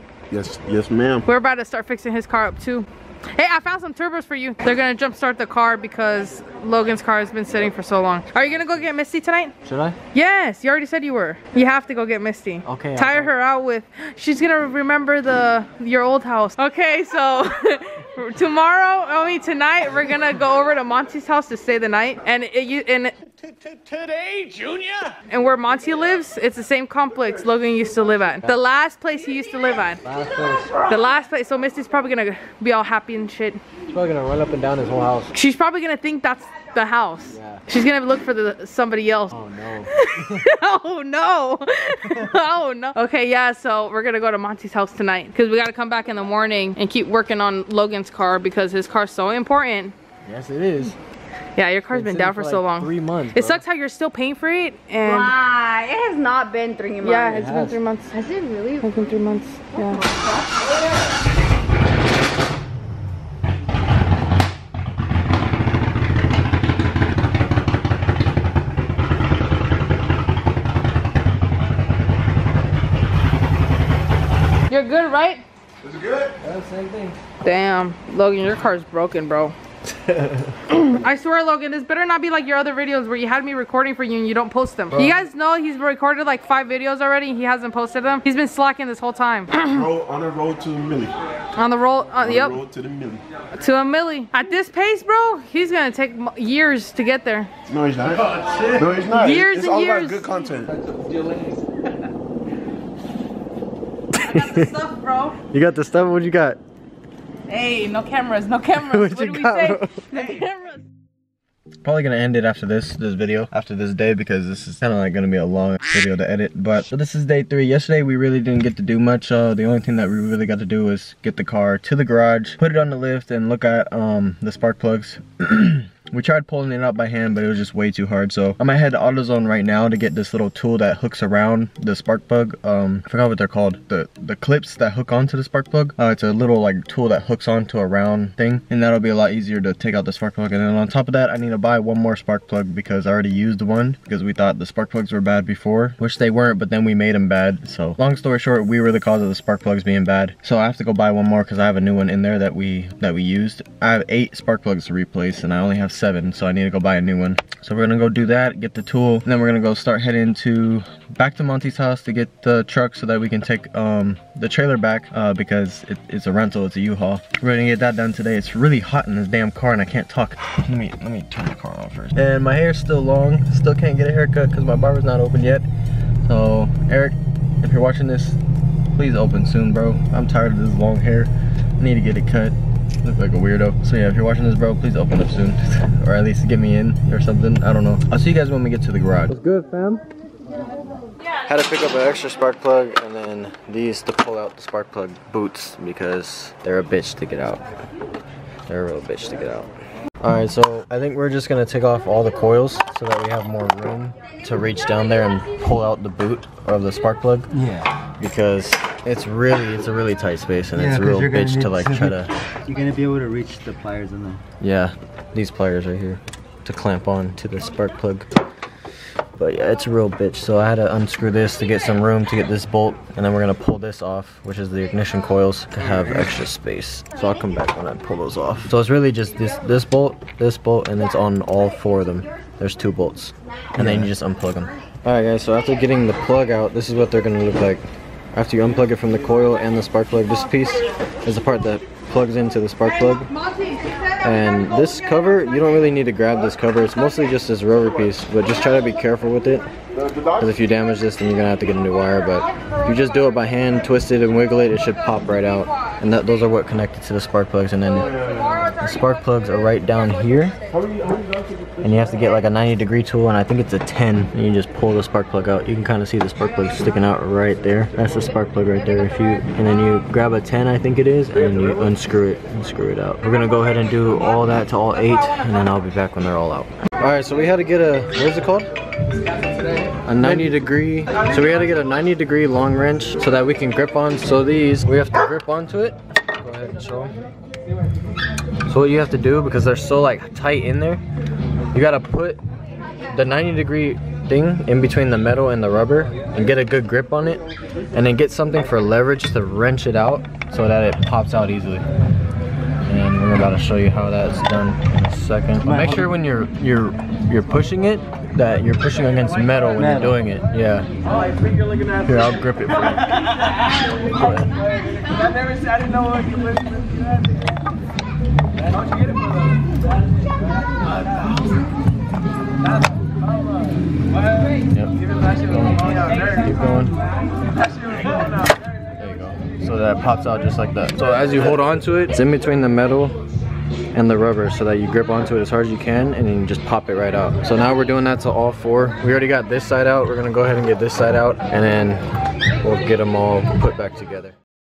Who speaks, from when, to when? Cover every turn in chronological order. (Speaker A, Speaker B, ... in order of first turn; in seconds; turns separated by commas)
Speaker A: 0.3-1.3, Speaker B: 1.3-9.5, Speaker C: 8.6-8.9, Speaker C: 9.6-10.0, Speaker B: 10.1-23.1, Speaker C: 12.6-13.3, Speaker C: 23.4-24.8, Speaker B: 25.3-30.0, Speaker B: 30.9-33.6, Speaker C: 33.9-35.3, Speaker B: 35.3-39.4, Speaker C: 37.3-37.6, Speaker C: 39.3-40.5, Speaker B: 39.9-50.0, Speaker C: 50.2-51.0, Speaker B: 51.5-55.4, Speaker C: 51.9-53.6, Speaker D: 55.3-57.2, Speaker B: 57.0-60.0, Speaker D: 58.3-58.8, Speaker B: 74.7-75.4, Speaker A: 75.9-76.3, Speaker C: 76.5-77.2, Speaker B: 77.4-79.6, Speaker C: 79.9-80.7, Speaker B: 80.7-89.7, Speaker C: 84.9-85.2, Speaker A: 89.5-91.2, Speaker B: 91.5-92.6, Speaker A: 92.2-93.2, Speaker B: 93.6-97.5, Speaker A: 97.7-100.8, Speaker B: 99.2-100.6, Speaker B: 104.2-105.4, Speaker C: 104.2-104.8, Speaker C: 105.5-106.6, Speaker B: 107.5-110.8, Speaker C: 108.8-110.1, Speaker C: 111.8-175.7, Speaker C: 176.2-178.4, Speaker C: 178.9-190.0, Speaker C: 191.4-197.6, Speaker C: 198.7-207.5, Speaker E: 207.6-207.9, Speaker C: 208.2-212.3, Speaker E: 210.8-214.4, Speaker C: 214.6-218.3, Speaker C: 219.4-243.3, Speaker B: 243.5-244.0, Speaker C: 244.2-249.7, Speaker C: 250.4-258.2, Speaker B: 252.4-252.9, Speaker B: 257.9-259.3, Speaker C: 258.7-260.6, Speaker A: 260.7-261.7, Speaker C: 261.8-278.7, Speaker C: 280.1-287.1, Speaker C: 288.7-291.0, Speaker C: 291.7-292.4, Speaker C: 293.1-297.4, Speaker C: 297.9-301.8, Speaker C: 302.9-310.9, Speaker E: 305.6-306.1, Speaker E: 309.8-310.1, Speaker C: 311.9-313.2, Speaker C: 314.0-314.5, Speaker C: 324.7-327.0, Speaker C: 327.9-328.3, Speaker C: 328.9-333.1, Speaker C: 333.9-342.0, Speaker C: 342.6-344.4